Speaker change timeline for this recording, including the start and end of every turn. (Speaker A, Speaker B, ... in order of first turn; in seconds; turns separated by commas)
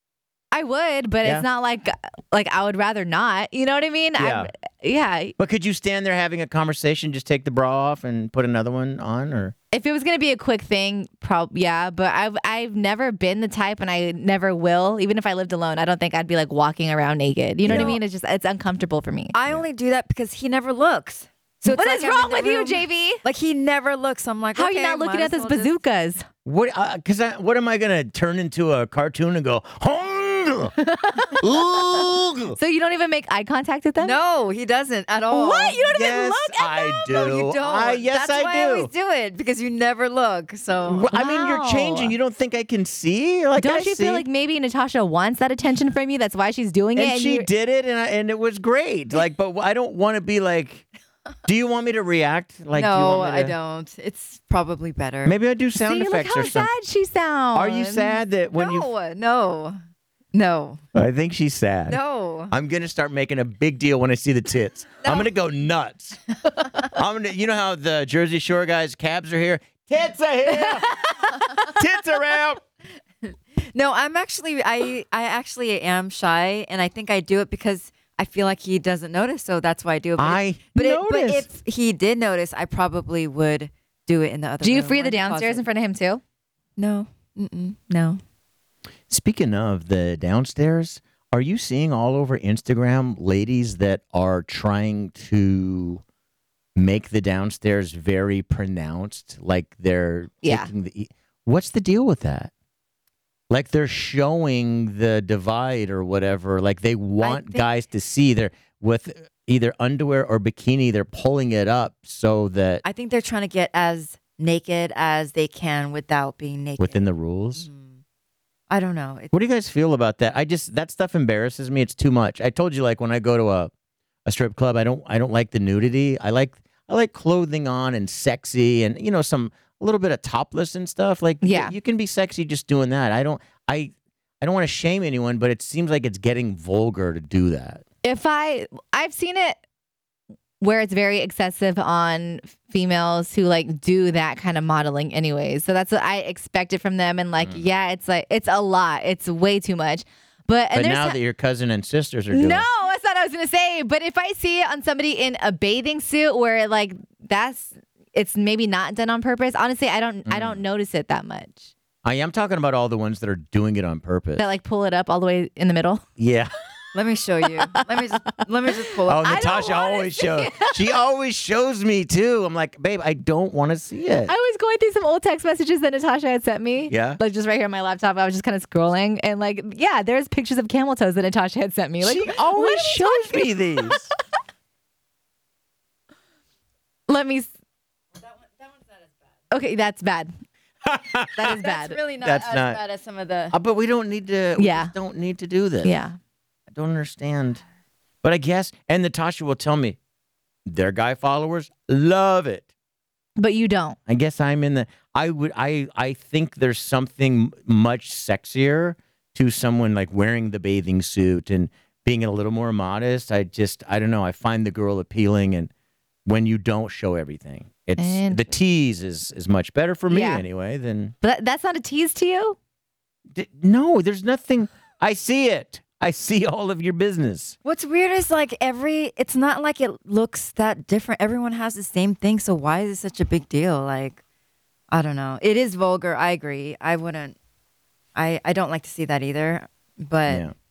Speaker A: 0.5-5.3, Speaker B: 4.2-4.5, Speaker B: 5.4-9.5, Speaker A: 9.7-19.3, Speaker B: 17.6-18.0, Speaker C: 17.7-18.0, Speaker C: 19.3-25.8, Speaker A: 21.7-23.2, Speaker A: 24.5-26.2, Speaker B: 26.4-30.8, Speaker A: 30.8-31.6, Speaker B: 31.4-32.6, Speaker A: 32.6-34.1, Speaker C: 34.0-35.8, Speaker A: 35.3-37.1, Speaker B: 35.9-38.9, Speaker C: 37.1-41.1, Speaker B: 40.8-44.2, Speaker A: 41.1-42.1, Speaker A: 43.6-47.5, Speaker B: 47.0-50.9, Speaker B: 51.5-53.5, Speaker C: 52.8-55.4, Speaker B: 55.2-56.7, Speaker A: 55.8-58.2, Speaker B: 57.5-58.9, Speaker C: 58.5-59.8, Speaker C: 60.3-60.8, Speaker B: 60.9-66.2, Speaker C: 61.9-62.5, Speaker C: 65.0-65.3, Speaker B: 66.8-70.9, Speaker A: 70.6-71.1, Speaker B: 71.7-72.6, Speaker C: 73.7-85.6, Speaker B: 80.2-81.5, Speaker A: 84.6-86.2, Speaker C: 86.8-88.2, Speaker B: 89.1-96.0, Speaker B: 96.8-102.5, Speaker A: 100.4-100.7, Speaker B: 103.5-112.8, Speaker C: 107.2-107.7, Speaker C: 112.8-118.0, Speaker B: 116.8-117.7, Speaker C: 118.7-119.3, Speaker B: 119.3-123.7, Speaker B: 124.2-137.8, Speaker A: 131.4-131.8, Speaker A: 138.0-139.6, Speaker A: 140.6-151.2, Speaker B: 150.7-152.7, Speaker A: 152.3-161.7, Speaker B: 160.2-160.6, Speaker B: 162.0-164.4, Speaker A: 164.4-166.0, Speaker B: 166.2-166.5, Speaker C: 166.9-169.7, Speaker B: 169.1-174.3, Speaker A: 169.2-170.8, Speaker A: 174.2-184.0, Speaker B: 176.9-177.2, Speaker B: 182.0-184.1, Speaker A: 187.1-187.5, Speaker C: 188.2-189.0, Speaker A: 189.5-190.3, Speaker B: 190.8-191.5, Speaker C: 191.4-193.6, Speaker A: 191.4-192.0, Speaker B: 192.2-192.8, Speaker B: 193.5-196.0, Speaker A: 194.6-194.9, Speaker A: 195.8-196.1, Speaker B: 196.7-197.6, Speaker B: 198.2-200.0, Speaker B: 200.7-202.7, Speaker A: 203.4-204.0, Speaker B: 204.1-215.7, Speaker B: 216.2-221.1, Speaker A: 218.0-218.6, Speaker A: 220.1-220.4, Speaker A: 221.2-222.6, Speaker B: 223.3-227.6, Speaker C: 227.6-234.2, Speaker C: 234.9-237.4, Speaker C: 238.2-240.4, Speaker B: 240.2-240.5